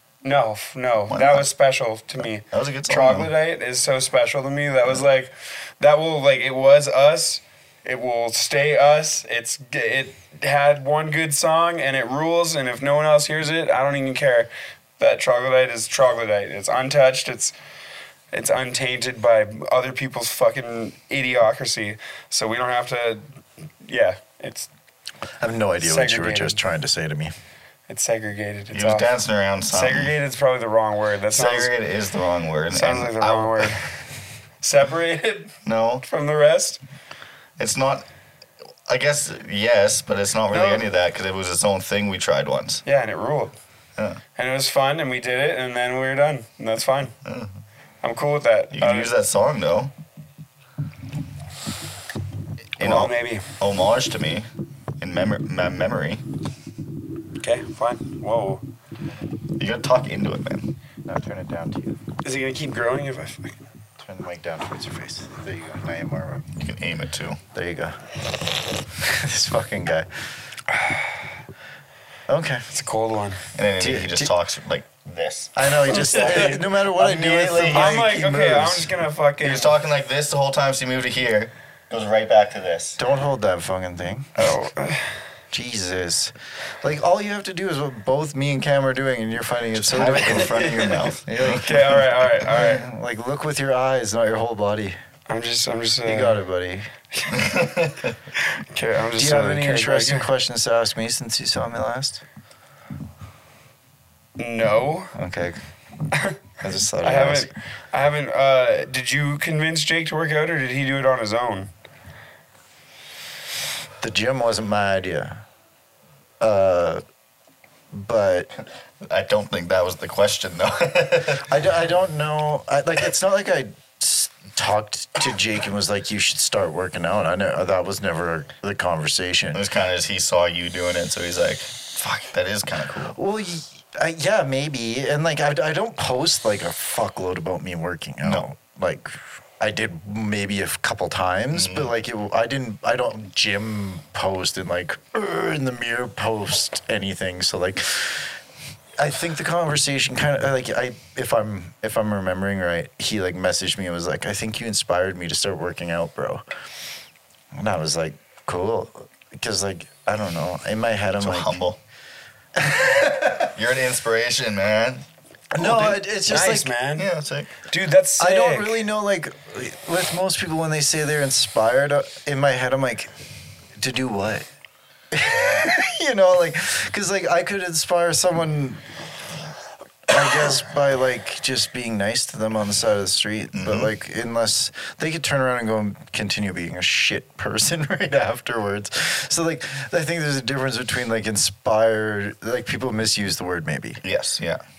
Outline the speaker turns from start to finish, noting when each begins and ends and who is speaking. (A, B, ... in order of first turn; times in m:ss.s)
0:00.2-0:17.5 A
0:01.1-0:01.4 B
0:02.5-0:03.3 B
0:18.3-0:24.7 A
0:25.4-0:27.3 C
0:25.8-0:26.6 A
0:27.9-0:29.1 A
0:28.7-0:30.1 B
0:29.7-0:31.7 A
0:31.3-0:33.9 B
0:32.7-0:33.9 A
0:34.6-0:36.8 A
0:35.6-0:36.0 B
0:37.6-0:38.0 B
0:38.9-0:42.8 B
0:40.5-0:40.8 A
0:42.8-0:43.6 A
0:44.4-0:47.1 A
0:47.2-0:47.5 B
0:48.0-0:49.1 A
0:48.7-0:49.9 B
0:52.8-0:54.5 B
0:52.8-0:53.5 A
0:55.0-0:56.2 B
0:57.4-0:58.6 A
0:59.6-1:00.7 B
1:01.0-1:02.0 C
1:02.2-1:03.6 A
1:04.0-1:06.5 C
1:06.6-1:07.4 B
1:07.5-1:08.0 C
1:08.9-1:10.2 C
1:12.3-1:12.6 C
1:12.7-1:13.4 A
1:13.5-1:18.0 B
1:13.8-1:14.3 C
1:15.6-1:18.9 C
1:15.9-1:16.6 A
1:17.7-1:19.7 A
1:19.4-1:23.0 B
1:23.0-1:24.5 C
1:24.4-1:25.2 A
1:25.5-1:35.0 C
1:29.8-1:31.7 B
1:30.3-1:32.8 A
1:35.3-1:36.4 A
1:36.0-1:36.9 C
1:37.2-1:37.6 A
1:37.3-1:38.1 B
1:38.4-1:40.3 A
1:39.2-1:42.2 C
1:44.4-1:45.1 A
1:45.1-1:45.6 C
1:46.1-1:46.4 A
1:46.6-1:47.5 C
1:47.0-1:51.7 A
1:54.0-1:55.4 C
1:56.4-1:57.0 C
1:57.9-1:58.5 C
1:59.0-2:01.5 B
2:01.4-2:09.6 C
2:09.5-2:13.2 B
2:13.1-2:28.4 C
2:21.5-2:21.9 B
2:29.0-2:36.4 C
2:37.5-2:41.6 C
2:41.2-2:41.8 B
2:42.6-2:43.5 C
2:43.3-2:45.0 B
2:45.5-2:46.7 C
2:45.6-2:47.1 A
2:47.0-2:47.5 B
2:47.7-2:48.8 A
2:48.2-2:53.1 C
2:53.8-2:54.5 C
2:55.1-2:58.9 C
3:00.1-3:14.0 C
3:03.5-3:03.9 B
3:14.0-3:14.6 B